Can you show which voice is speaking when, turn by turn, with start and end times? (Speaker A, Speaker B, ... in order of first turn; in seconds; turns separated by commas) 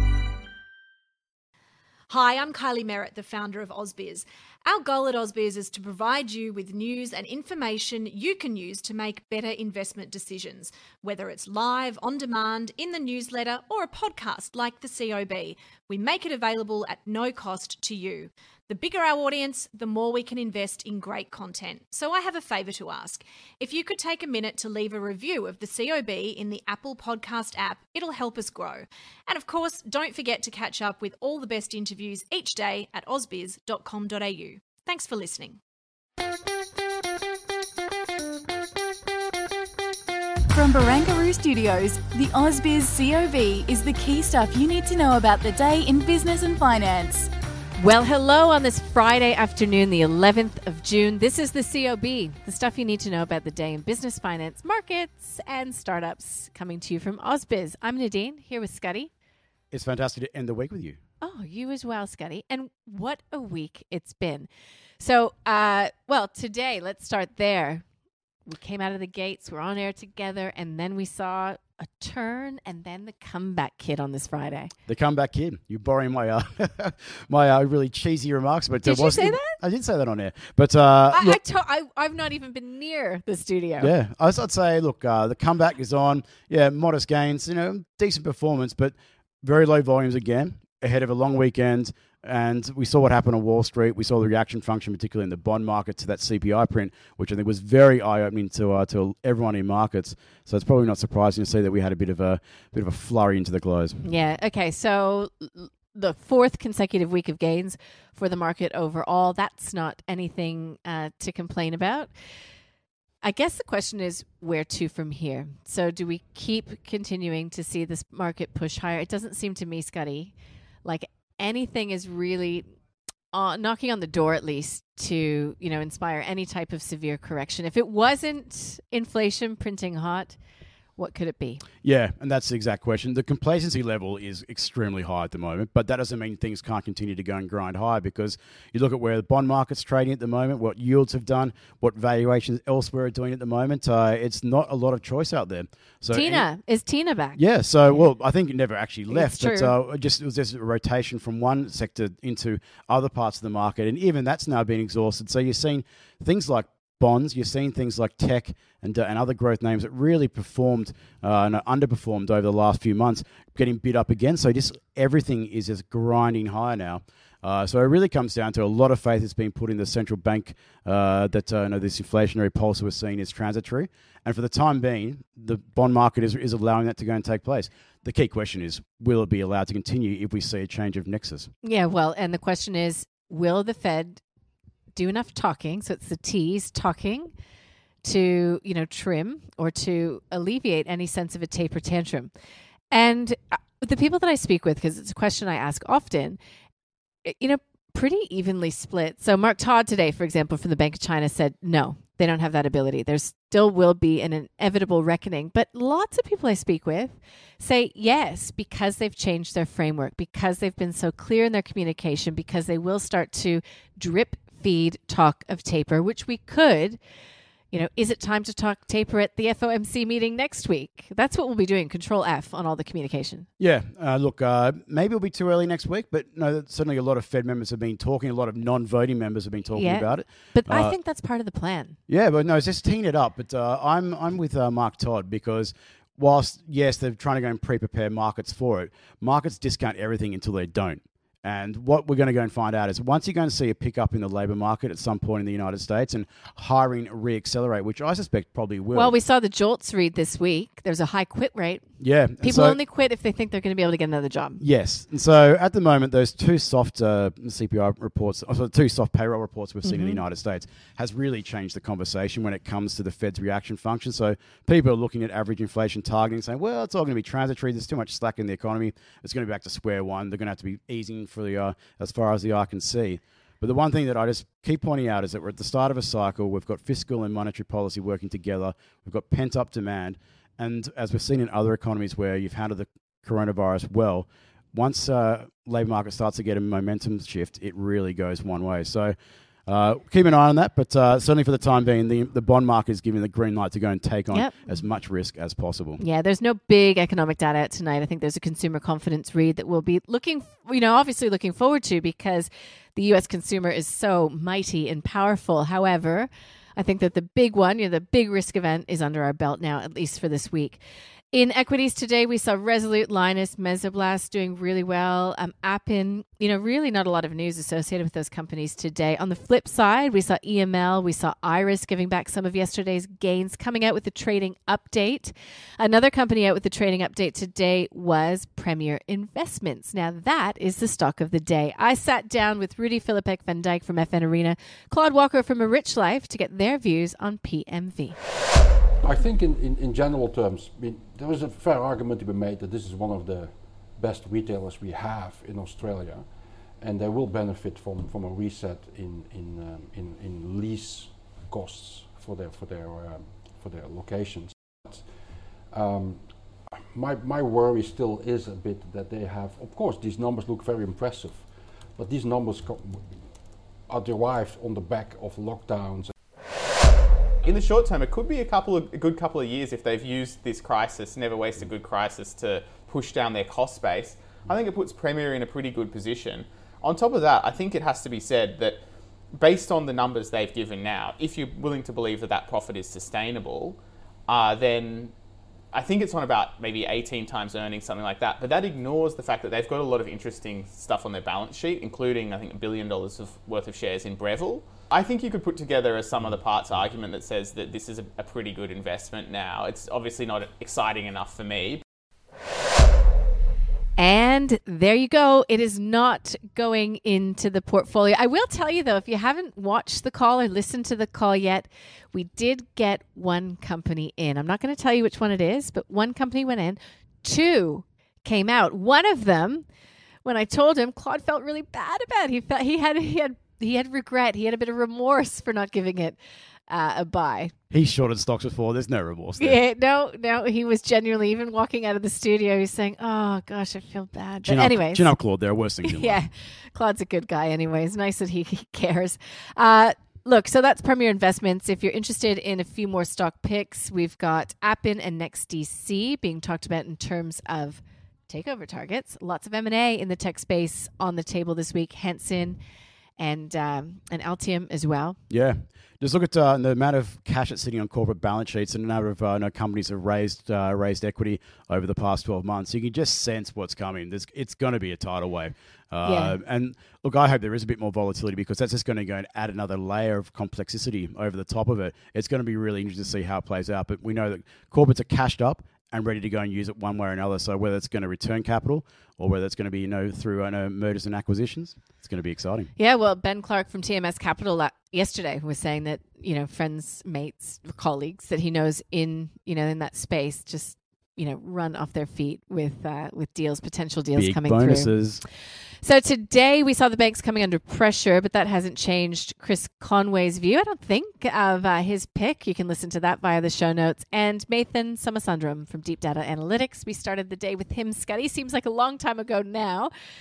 Speaker A: 2.1-35.6, Speaker B: 40.5-47.3, Speaker C: 47.8-59.1, Speaker D: 59.7-61.0, Speaker C: 61.2-64.5, Speaker C: 65.0-67.8, Speaker C: 68.5-74.7, Speaker D: 74.8-81.4, Speaker C: 78.8-79.5, Speaker C: 81.1-83.9, Speaker D: 83.8-104.0, Speaker C: 104.0-112.1, Speaker C: 113.2-120.3, Speaker C: 120.8-122.7, Speaker C: 123.3-130.4, Speaker C: 130.9-131.6, Speaker D: 131.8-146.5, Speaker C: 146.1-148.1, Speaker D: 147.3-181.5, Speaker C: 149.1-149.7, Speaker C: 181.6-184.2, Speaker C: 184.9-187.3, Speaker C: 188.0-192.3, Speaker C: 192.9-196.4, Speaker C: 197.2-217.0, Speaker C: 217.7-223.5, Speaker D: 223.6-230.9, Speaker C: 229.7-232.0, Speaker D: 232.1-249.2, Speaker C: 248.9-251.8, Speaker D: 252.0-252.8, Speaker C: 252.4-254.6, Speaker D: 254.6-289.1, Speaker C: 259.8-260.2, Speaker D: 289.7-296.0, Speaker C: 294.3-294.8, Speaker C: 296.0-310.8, Speaker C: 311.3-338.2, Speaker E: 339.0-366.1, Speaker F: 367.4-378.8, Speaker F: 379.4-385.1, Speaker F: 385.7-401.8, Speaker C: 404.0-419.6, Speaker C: 420.2-427.5, Speaker D: 427.7-429.6, Speaker C: 429.4-435.1, Speaker D: 434.4-436.2, Speaker C: 435.8-452.6, Speaker C: 453.2-455.2, Speaker D: 455.3-482.7, Speaker C: 466.0-466.3, Speaker C: 482.8-494.9, Speaker D: 494.1-495.2, Speaker C: 495.8-509.9